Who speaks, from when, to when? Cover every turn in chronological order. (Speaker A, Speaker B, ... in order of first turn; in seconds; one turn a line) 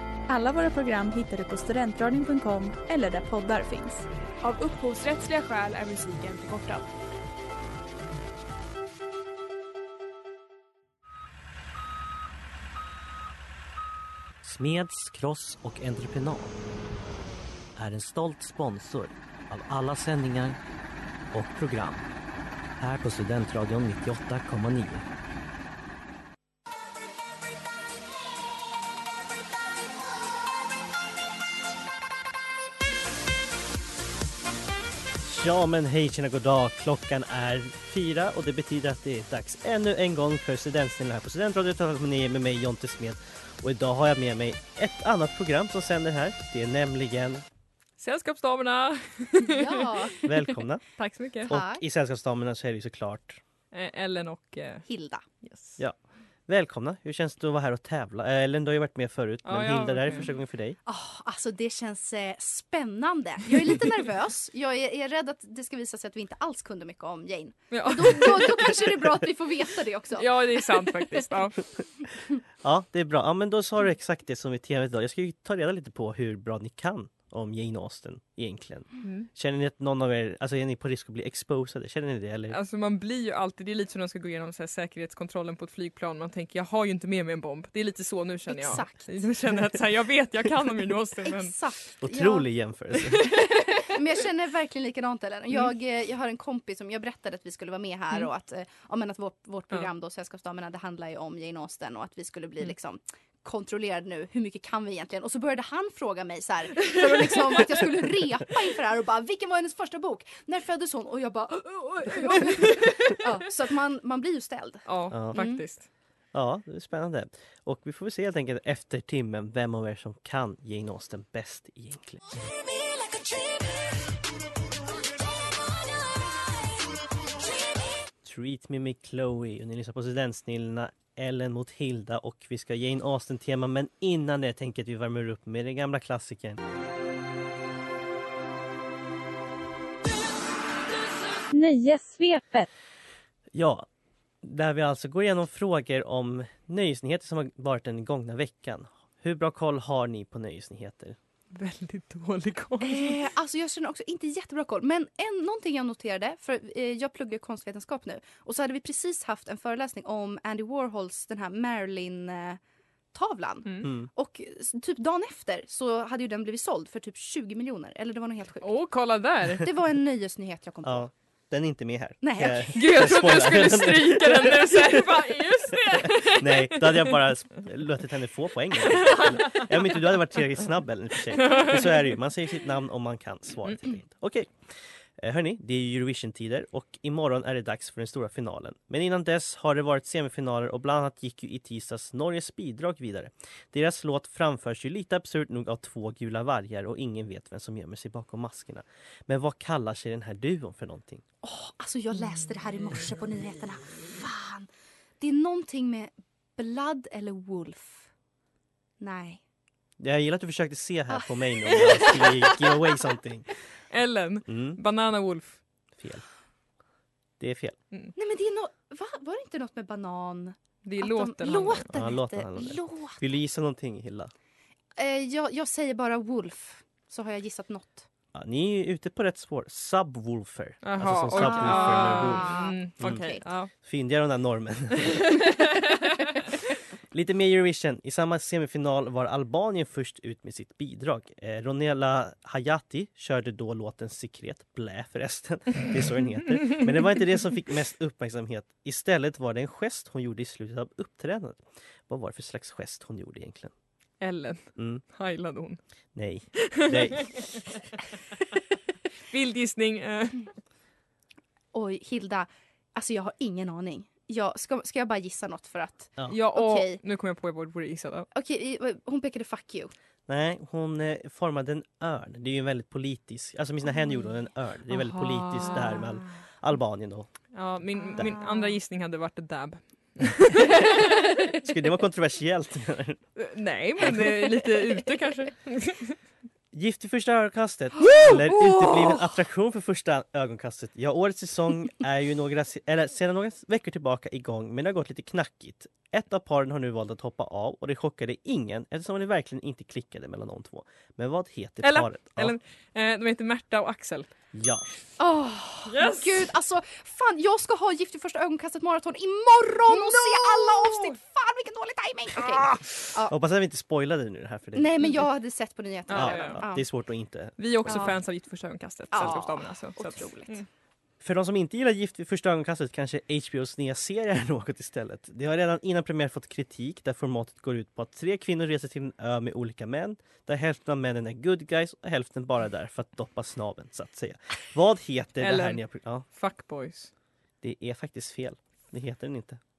Speaker A: 0.3-4.0
Speaker B: 4.4-6.9
Speaker C: 14.4-16.6
Speaker C: 17.8-20.6
Speaker C: 21.3-22.1
Speaker C: 22.8-25.1
Speaker C: 35.2-47.4
Speaker D: 48.0-49.9
Speaker E: 49.4-50.5
Speaker C: 50.2-50.8
Speaker D: 51.0-51.5
Speaker C: 51.4-53.4
Speaker E: 51.5-51.8
Speaker D: 53.7-54.9
Speaker E: 54.9-55.2
Speaker D: 55.4-55.8
Speaker C: 56.5-60.8
Speaker D: 59.5-60.3
Speaker E: 60.9-71.2
Speaker D: 67.7-68.7
Speaker D: 70.2-71.6
Speaker C: 72.6-82.6
Speaker D: 79.0-79.3
Speaker D: 82.5-91.6
Speaker E: 88.5-89.2
Speaker E: 91.5-92.5
Speaker C: 92.0-93.3
Speaker E: 93.2-115.6
Speaker D: 114.9-115.9
Speaker C: 115.1-115.4
Speaker C: 116.3-122.2
Speaker F: 123.1-123.7
Speaker F: 125.8-126.2
Speaker C: 128.2-136.6
Speaker F: 141.5-142.7
Speaker C: 143.5-143.9
Speaker C: 144.4-151.2
Speaker D: 151.5-153.3
Speaker E: 152.8-162.6
Speaker E: 163.1-168.7
Speaker C: 163.8-164.1
Speaker D: 168.6-169.7
Speaker E: 169.5-171.1
Speaker C: 170.8-184.5
Speaker E: 172.2-173.1
Speaker D: 172.7-177.2
Speaker D: 178.8-180.1
Speaker D: 181.3-182.0
Speaker C: 185.2-201.2
Speaker E: 201.4-204.7
Speaker E: 205.2-208.1
Speaker E: 209.0-209.4
Speaker C: 210.0-213.5
Speaker E: 211.1-212.9
Speaker D: 213.9-215.6
Speaker C: 214.5-214.8
Speaker C: 216.0-216.2
Speaker C: 217.4-217.8
Speaker E: 218.2-223.3
Speaker D: 220.8-221.9
Speaker C: 221.9-224.3
Speaker E: 225.0-228.1
Speaker C: 228.3-232.5
Speaker D: 230.8-233.7
Speaker E: 231.3-233.4
Speaker C: 233.8-235.3
Speaker D: 235.1-236.3
Speaker C: 237.1-253.7
Speaker D: 254.2-255.8
Speaker C: 254.8-255.0
Speaker C: 256.1-257.4
Speaker D: 256.6-257.8
Speaker D: 259.3-260.5
Speaker E: 261.7-267.0
Speaker D: 266.3-268.3
Speaker E: 268.3-269.9
Speaker C: 270.3-277.3
Speaker D: 274.9-276.1
Speaker D: 277.5-281.5
Speaker C: 278.2-278.4
Speaker E: 278.2-278.6
Speaker C: 281.5-283.2
Speaker D: 283.4-286.2
Speaker C: 286.7-302.6
Speaker D: 288.0-289.2
Speaker D: 301.8-304.3
Speaker C: 304.5-304.9
Speaker E: 305.2-313.4
Speaker D: 305.9-306.5
Speaker D: 309.9-311.2
Speaker C: 313.3-315.2
Speaker E: 314.8-316.9
Speaker D: 316.1-316.6
Speaker C: 316.1-318.1
Speaker D: 317.6-320.6
Speaker E: 317.9-318.1
Speaker E: 319.1-320.6
Speaker C: 321.2-336.3
Speaker D: 335.4-337.1
Speaker C: 337.6-339.6